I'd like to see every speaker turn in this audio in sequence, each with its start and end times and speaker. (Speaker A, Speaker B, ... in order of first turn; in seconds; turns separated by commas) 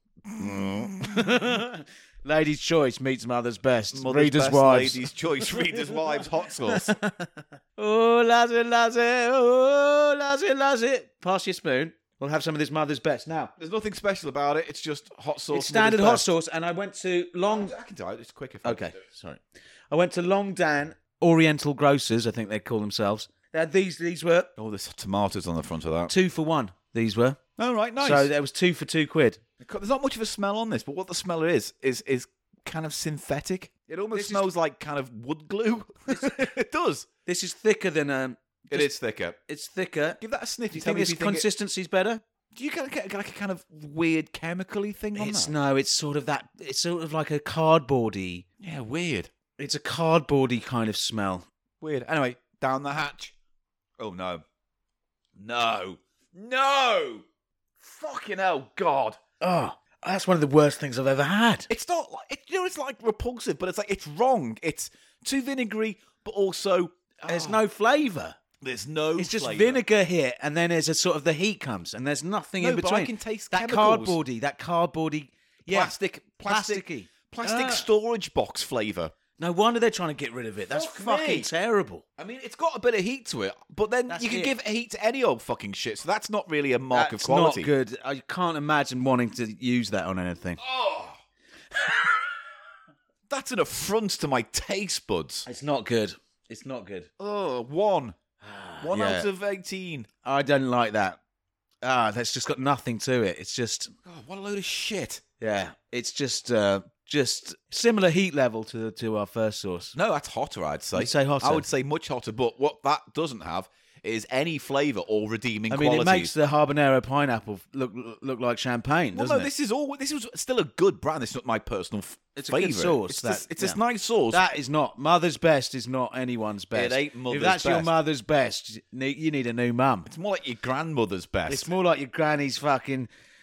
Speaker A: 0.3-1.3, Speaker B: 1.0-13.5, Speaker A: 3.9-6.9, Speaker A: 13.6-16.3, Speaker B: 15.5-17.8, Speaker A: 17.5-19.0, Speaker B: 18.6-24.5, Speaker A: 24.6-26.1, Speaker B: 26.1-27.4, Speaker A: 27.6-28.3, Speaker B: 28.0-29.4, Speaker A: 29.6-37.1, Speaker B: 34.1-34.5, Speaker B: 36.1-36.4, Speaker B: 37.3-38.9, Speaker A: 38.7-39.4, Speaker B: 39.5-40.2, Speaker A: 40.2-41.5, Speaker B: 40.7-42.2, Speaker A: 42.5-45.5, Speaker B: 45.2-48.5, Speaker A: 48.6-49.3, Speaker B: 49.6-51.5, Speaker A: 51.8-53.4, Speaker A: 54.0-54.4, Speaker A: 55.4-57.2, Speaker A: 57.8-59.2, Speaker B: 59.4-61.7, Speaker A: 61.7-67.6, Speaker B: 67.2-68.4, Speaker A: 68.6-69.8, Speaker B: 69.2-75.9, Speaker A: 72.6-74.2, Speaker A: 75.7-79.1, Speaker B: 76.5-77.9, Speaker B: 79.4-82.0, Speaker A: 80.7-81.5, Speaker A: 82.2-87.7, Speaker B: 84.1-84.5, Speaker B: 86.9-90.6, Speaker A: 90.6-91.2, Speaker A: 93.3-95.5, Speaker B: 95.5-97.1, Speaker A: 97.2-98.2, Speaker B: 98.4-99.3, Speaker A: 98.8-100.1, Speaker B: 100.2-101.2, Speaker B: 101.8-103.9, Speaker A: 104.0-105.2, Speaker B: 105.4-110.0, Speaker A: 110.0-116.3, Speaker B: 111.0-111.7, Speaker B: 115.7-119.5, Speaker A: 119.1-124.4, Speaker B: 122.3-123.8, Speaker B: 124.3-130.1, Speaker A: 126.7-127.9, Speaker A: 130.1-131.7, Speaker B: 131.5-133.1